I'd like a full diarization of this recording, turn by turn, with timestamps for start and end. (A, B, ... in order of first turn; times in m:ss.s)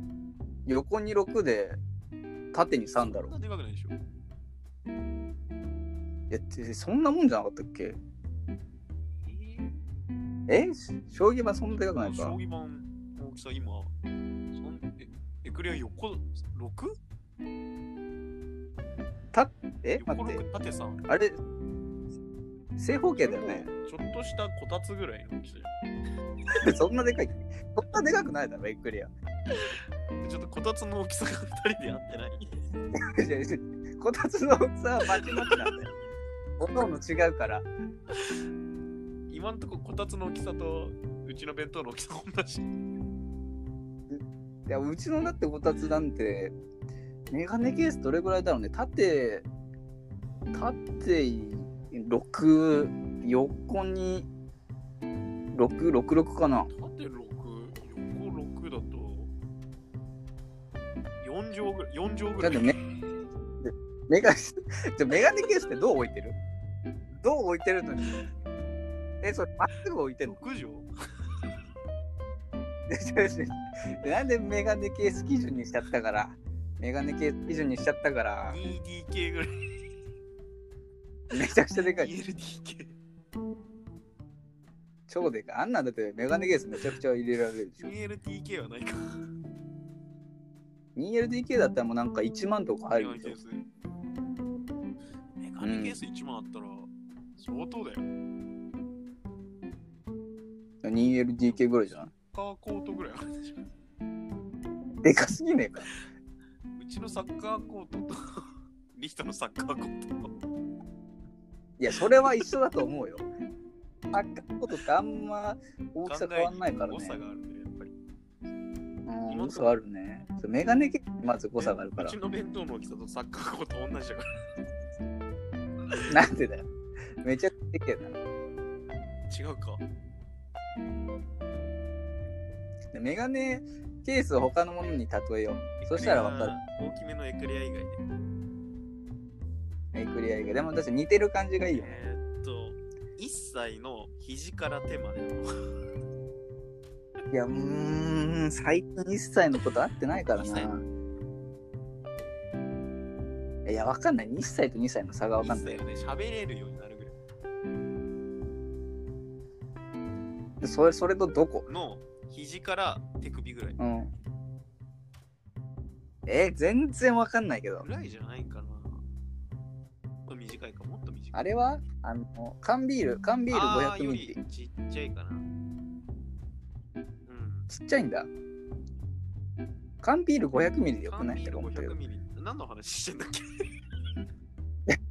0:00.6-0:01.8 A
0:02.5-0:03.3 A
0:02.8-0:04.0 B
0:06.3-0:08.0 A
0:09.2-0:09.8 B
0:10.5-0:12.4 A
0:11.7-0:13.9 B
0:14.5-0:16.9 B
0:19.3-0:20.4 A
0:20.0-0:21.0 B
0:21.1-0:21.4 A
0:22.8-0:23.7 A
0:23.2-0:25.7 B
0:26.6-0:29.1 A
0:30.2-0:32.5 B
0:33.1-0:35.9 A
0:35.2-0:35.6 B
0:36.6-0:37.7 A
0:39.3-0:42.7 B
0:44.1-0:46.5 A
0:47.3-0:49.4 A
0:50.5-0:54.3 A
0:55.5-0:56.7 A
0:56.7-0:59.3 B
1:01.2-1:02.7 B
1:02.4-1:02.8 A
1:03.6-1:06.4 A
1:07.2-1:08.3 A
1:09.2-1:10.4 A
1:10.2-1:10.9 B
1:12.9-1:18.6 A
1:18.5-1:19.5 B
1:21.3-1:22.1 A
1:21.7-1:23.0 B
1:25.1-1:27.9 A
1:27.8-1:29.2 B
1:31.0-1:33.4 A
1:32.9-1:33.6 B
1:35.4-1:38.1 B
1:35.6-1:36.0 A
1:40.8-1:42.1 A
1:41.4-1:43.6 B
1:45.0-1:45.9 A
1:46.8-1:50.3 B
1:51.8-1:53.3 A
1:54.1-1:57.2 A
1:56.0-1:57.9 B
1:59.1-2:02.2 A
1:59.2-1:59.8 B
2:01.6-2:04.2 B
2:06.1-2:06.7 A
2:07.2-2:08.2 A
2:09.3-2:09.8 B
2:12.9-2:16.6 A
2:15.8-2:18.0 B
2:19.9-2:22.0 A
2:21.7-2:25.5 B
2:27.3-2:30.8 A
2:30.3-2:30.7 B
2:33.6-2:35.8 A
2:35.4-2:37.2 B
2:40.6-2:41.6 A
2:41.6-2:43.8 B
2:43.8-2:44.1 A
2:46.2-2:47.9 A
2:47.8-2:49.0 B
2:50.3-2:51.5 B
2:51.3-2:54.4 A
2:53.5-2:55.4 B
2:57.3-2:57.7 B
2:57.7-2:58.3 A
3:00.0-3:02.0 A
3:01.0-3:03.4 B